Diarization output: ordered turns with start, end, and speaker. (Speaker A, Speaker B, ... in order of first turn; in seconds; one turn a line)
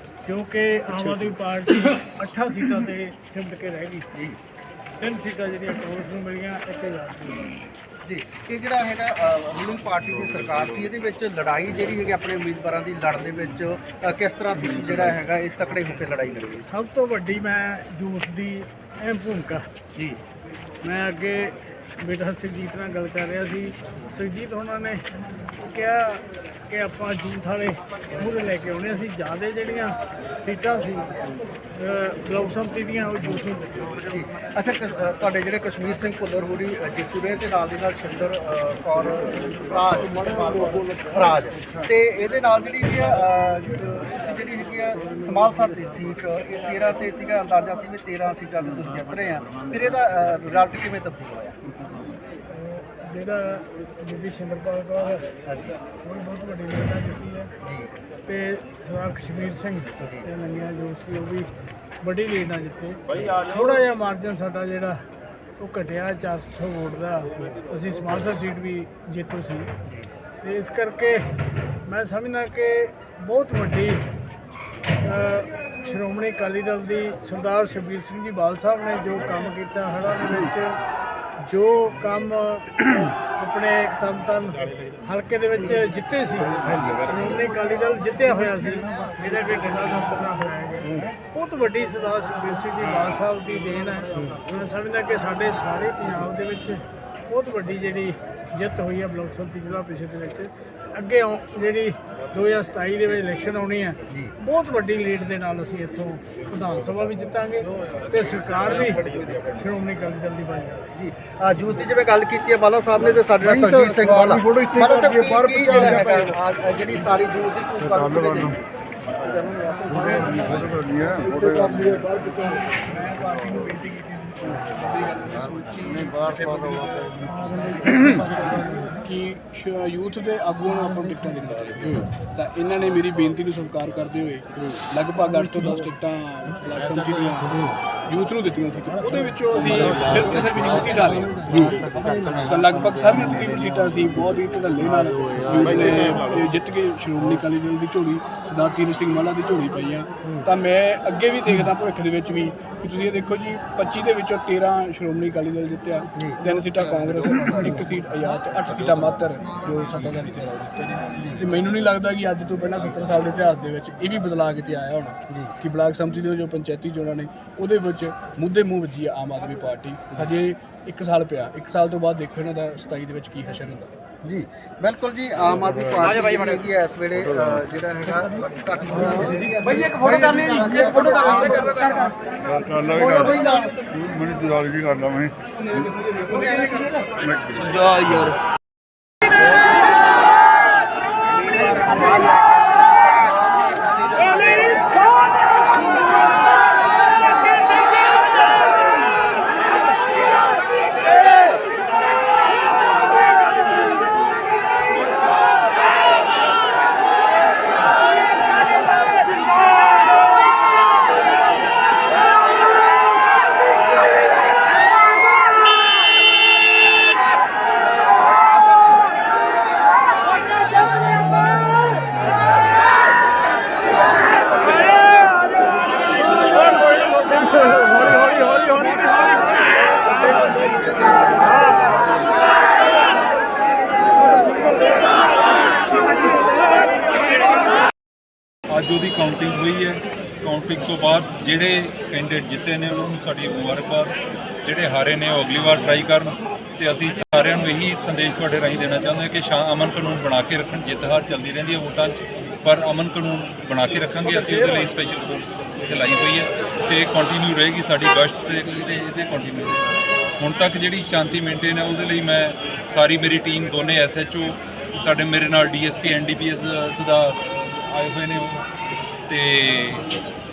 Speaker A: 0.2-4.1
Speaker A: 5.0-7.5
Speaker B: 8.0-16.6
Speaker A: 16.6-19.6
Speaker A: 20.8-25.0
Speaker A: 25.6-31.2
Speaker A: 31.7-34.0
Speaker B: 34.0-51.6
Speaker A: 52.5-55.2
Speaker B: 55.5-55.7
Speaker A: 56.0-57.5
Speaker B: 57.6-57.9
Speaker A: 58.2-61.5
Speaker A: 62.0-65.0
Speaker A: 65.6-69.7
Speaker B: 69.8-70.1
Speaker A: 70.4-71.3
Speaker A: 71.8-74.0
Speaker A: 75.0-80.8
Speaker A: 81.4-110.9
Speaker B: 86.6-87.2
Speaker B: 111.0-118.6
Speaker A: 119.4-120.9
Speaker C: 119.9-141.7
Speaker D: 120.9-121.6
Speaker A: 127.2-128.9
Speaker B: 131.8-132.1
Speaker B: 141.4-142.3
Speaker C: 142.3-173.9
Speaker B: 156.2-156.4
Speaker B: 174.2-184.0
Speaker D: 182.6-183.0
Speaker D: 184.0-185.3
Speaker B: 186.0-187.7
Speaker C: 187.8-188.3
Speaker B: 191.4-192.4
Speaker B: 230.6-231.7
Speaker E: 238.7-259.8
Speaker E: 260.4-268.6
Speaker E: 269.3-270.1